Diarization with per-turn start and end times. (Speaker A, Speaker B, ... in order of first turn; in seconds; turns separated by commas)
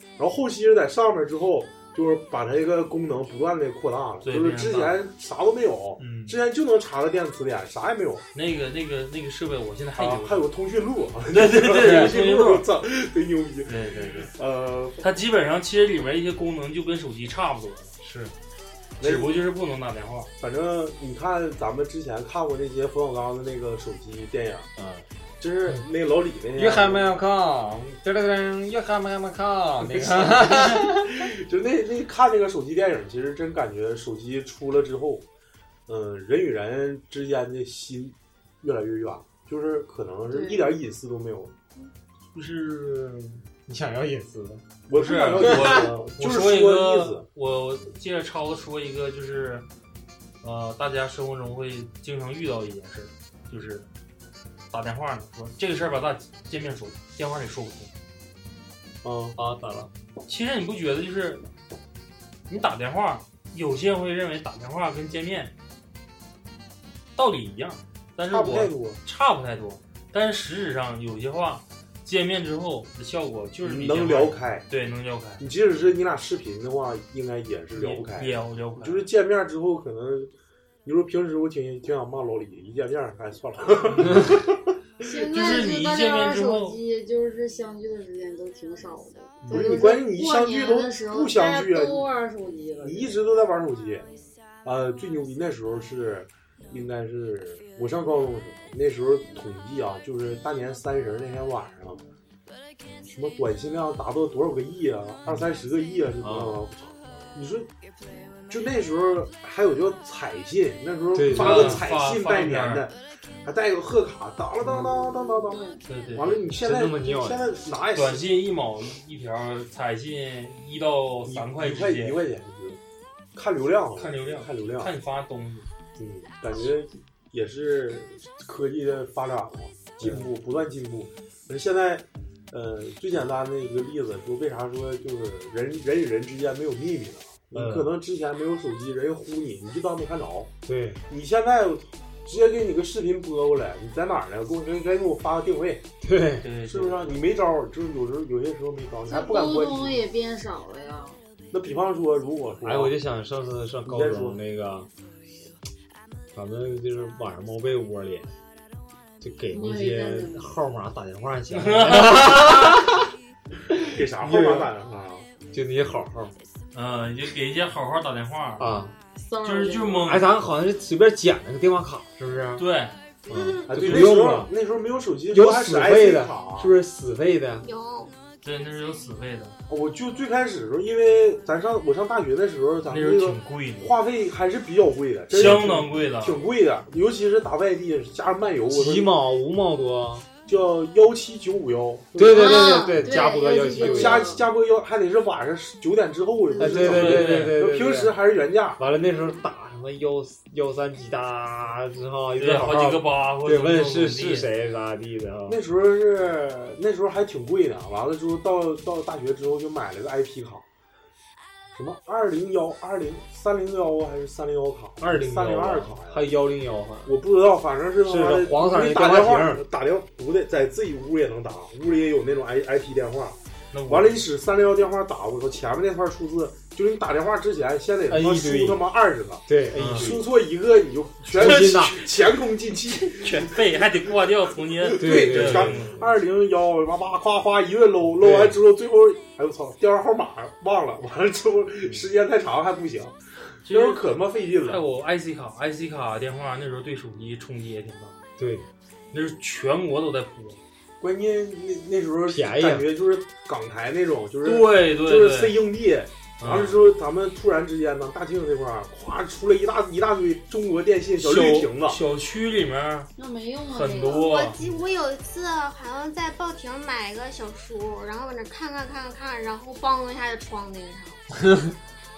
Speaker A: 0.2-8.2, Speaker B: 4.2-5.0, Speaker C: 6.0-6.4, Speaker B: 8.3-10.5, Speaker A: 10.0-15.1, Speaker B: 11.3-12.7, Speaker C: 11.8-12.1, Speaker B: 13.7-14.3, Speaker B: 15.0-17.9, Speaker C: 18.0-18.3, Speaker A: 19.0-19.4, Speaker B: 19.0-20.3, Speaker A: 20.4-24.7, Speaker C: 24.8-25.1, Speaker A: 25.4-27.2, Speaker C: 26.6-31.2, Speaker A: 29.8-35.2, Speaker A: 35.9-41.5, Speaker D: 40.3-40.7, Speaker B: 42.3-43.4, Speaker C: 43.7-44.6, Speaker A: 44.9-47.3, Speaker B: 44.9-49.7, Speaker C: 45.4-45.9, Speaker B: 50.4-53.9, Speaker B: 54.7-57.9, Speaker A: 59.0-59.4, Speaker C: 59.4-59.9, Speaker B: 60.3-61.4, Speaker B: 62.5-65.5, Speaker B: 67.2-75.4, Speaker A: 68.3-69.0, Speaker A: 73.6-74.7, Speaker A: 75.4-80.3, Speaker B: 77.8-79.1, Speaker A: 80.8-84.6, Speaker D: 85.0-93.2, Speaker B: 85.3-86.8, Speaker A: 89.5-92.1, Speaker A: 92.8-94.1, Speaker A: 94.6-102.0, Speaker A: 103.0-107.7, Speaker C: 106.2-106.6, Speaker A: 108.5-118.3, Speaker C: 111.1-111.8, Speaker B: 111.3-112.9, Speaker D: 115.3-115.8, Speaker B: 115.9-116.4, Speaker C: 116.6-117.5, Speaker B: 118.0-122.2, Speaker A: 121.2-122.8, Speaker A: 123.3-124.9, Speaker B: 124.0-125.7, Speaker A: 126.0-140.5, Speaker C: 130.0-130.3, Speaker C: 137.5-137.9, Speaker C: 140.7-141.0, Speaker A: 141.1-145.9, Speaker C: 146.0-146.5, Speaker B: 146.4-147.2, Speaker A: 146.6-150.0, Speaker D: 149.1-151.2, Speaker A: 151.5-153.0, Speaker C: 152.6-154.9, Speaker A: 153.9-154.4, Speaker C: 156.3-158.3, Speaker C: 159.2-163.1, Speaker D: 159.5-160.4, Speaker B: 161.6-162.8, Speaker C: 163.7-164.7, Speaker A: 163.9-165.3, Speaker C: 165.5-166.3, Speaker B: 166.7-168.8, Speaker C: 168.6-168.9, Speaker D: 169.2-170.1, Speaker B: 169.4-170.3, Speaker C: 170.0-172.7, Speaker B: 172.6-173.0, Speaker C: 173.3-174.5, Speaker A: 173.7-176.7, Speaker B: 173.7-174.2, Speaker C: 175.3-177.7, Speaker E: 177.6-178.1, Speaker B: 178.4-179.6, Speaker A: 179.7-189.1, Speaker B: 182.9-183.9, Speaker B: 185.3-186.4, Speaker C: 188.7-190.3, Speaker A: 190.5-193.0, Speaker C: 192.2-194.3, Speaker D: 192.3-194.4, Speaker E: 192.5-194.2, Speaker A: 193.8-198.8, Speaker C: 196.6-198.1, Speaker B: 196.7-197.6, Speaker C: 198.8-205.6, Speaker B: 202.4-204.5, Speaker A: 205.5-210.7, Speaker A: 211.7-216.3, Speaker C: 215.0-217.2, Speaker A: 217.1-233.6, Speaker C: 218.1-219.6, Speaker B: 223.7-224.2, Speaker C: 228.1-228.8, Speaker C: 229.5-230.3, Speaker B: 229.7-230.2, Speaker C: 231.3-232.0, Speaker B: 231.3-231.9, Speaker B: 233.1-235.9, Speaker A: 234.9-244.8, Speaker C: 235.0-236.1, Speaker C: 238.2-238.6, Speaker B: 243.7-244.0, Speaker B: 244.6-248.2, Speaker C: 248.4-248.7, Speaker B: 249.1-250.6, Speaker A: 251.0-262.0, Speaker C: 252.3-252.9, Speaker B: 254.4-255.6, Speaker B: 256.4-256.8, Speaker C: 261.3-261.6, Speaker B: 261.4-263.1, Speaker D: 263.2-264.3, Speaker B: 263.7-264.6, Speaker E: 264.2-271.2, Speaker C: 271.4-271.7